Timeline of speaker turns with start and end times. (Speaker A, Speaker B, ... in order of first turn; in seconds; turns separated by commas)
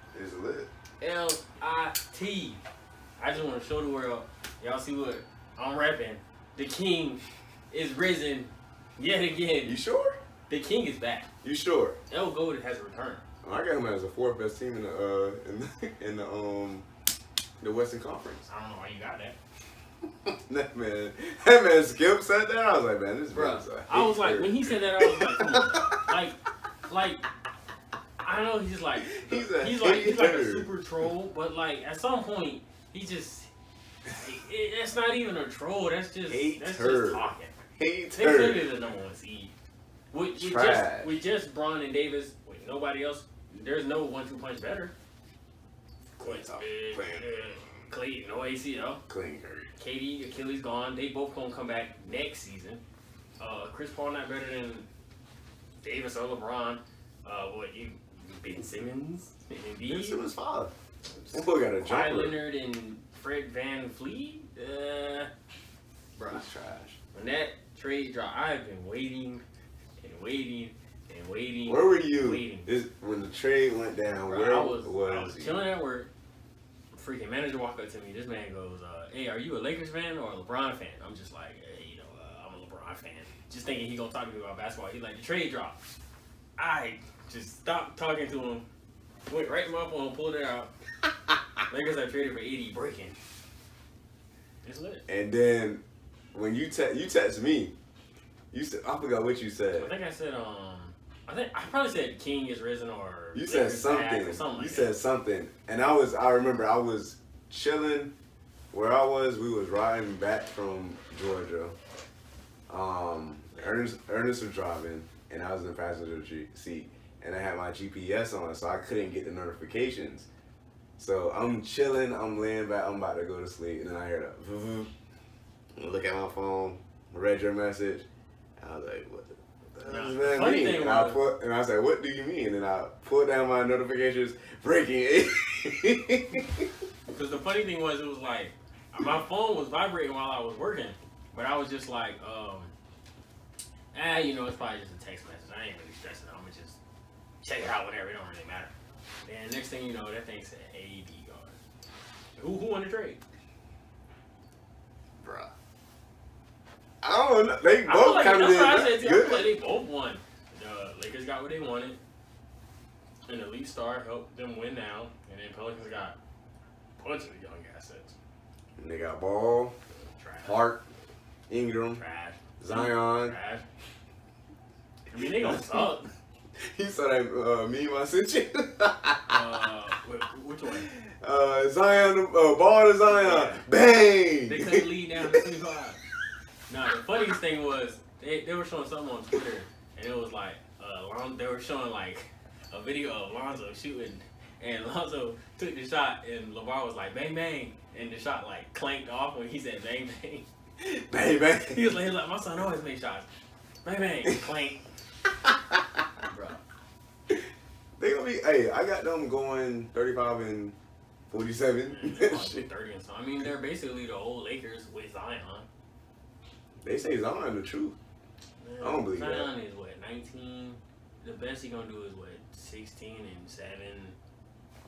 Speaker A: 0.1-0.7, Speaker B: 1.0-2.6, Speaker B: 3.2-9.8, Speaker A: 9.7-10.2, Speaker B: 10.5-11.3, Speaker A: 11.4-12.0, Speaker B: 12.1-13.2, Speaker A: 13.4-16.9, Speaker A: 17.6-18.5, Speaker B: 18.5-19.4, Speaker A: 20.2-26.0, Speaker B: 23.3-26.4, Speaker B: 26.9-27.2, Speaker B: 28.2-33.5, Speaker A: 29.0-30.7, Speaker B: 34.1-37.5, Speaker A: 36.3-38.7, Speaker B: 38.2-39.5, Speaker B: 40.1-44.9, Speaker A: 40.4-41.1, Speaker B: 46.2-49.0, Speaker A: 46.2-47.3, Speaker A: 49.1-49.7, Speaker B: 49.8-52.8, Speaker B: 53.4-54.9, Speaker B: 55.8-60.2, Speaker A: 59.9-60.7, Speaker B: 61.3-65.3, Speaker A: 61.3-62.4, Speaker B: 66.2-66.5, Speaker A: 66.3-67.0, Speaker B: 67.1-69.4, Speaker B: 70.0-72.7, Speaker A: 71.7-75.7, Speaker B: 74.2-76.1, Speaker B: 76.9-85.8, Speaker B: 86.6-88.7, Speaker B: 89.3-90.7, Speaker B: 91.7-93.2, Speaker B: 94.6-95.1, Speaker A: 95.1-95.8, Speaker A: 96.3-97.7, Speaker A: 98.5-99.9, Speaker B: 99.8-104.9, Speaker A: 103.3-108.1, Speaker A: 108.7-111.8, Speaker A: 112.7-120.3, Speaker A: 121.0-124.9, Speaker A: 125.8-128.1, Speaker A: 128.6-136.7, Speaker B: 129.8-131.2, Speaker B: 137.1-142.7, Speaker B: 143.9-146.8, Speaker B: 147.4-148.7, Speaker B: 149.2-151.6, Speaker B: 152.4-153.2, Speaker A: 155.2-155.5, Speaker A: 157.0-159.6, Speaker B: 157.8-162.0, Speaker B: 163.3-166.2, Speaker B: 167.0-168.2, Speaker A: 168.8-169.8, Speaker B: 170.1-170.6, Speaker A: 170.4-170.9, Speaker A: 171.5-172.0, Speaker B: 171.9-173.7, Speaker A: 172.6-173.4, Speaker B: 175.1-176.1, Speaker A: 175.2-175.9, Speaker A: 176.6-179.7, Speaker B: 179.3-180.9, Speaker A: 180.8-185.5, Speaker B: 183.1-183.7, Speaker B: 184.5-186.0, Speaker B: 186.7-200.5, Speaker A: 200.8-202.1, Speaker B: 201.5-203.3, Speaker B: 203.8-204.8, Speaker A: 205.4-206.1, Speaker B: 206.3-206.6, Speaker A: 208.0-210.8, Speaker A: 211.3-212.7, Speaker B: 211.9-215.7, Speaker A: 216.8-218.0, Speaker B: 218.6-224.2, Speaker A: 218.8-219.5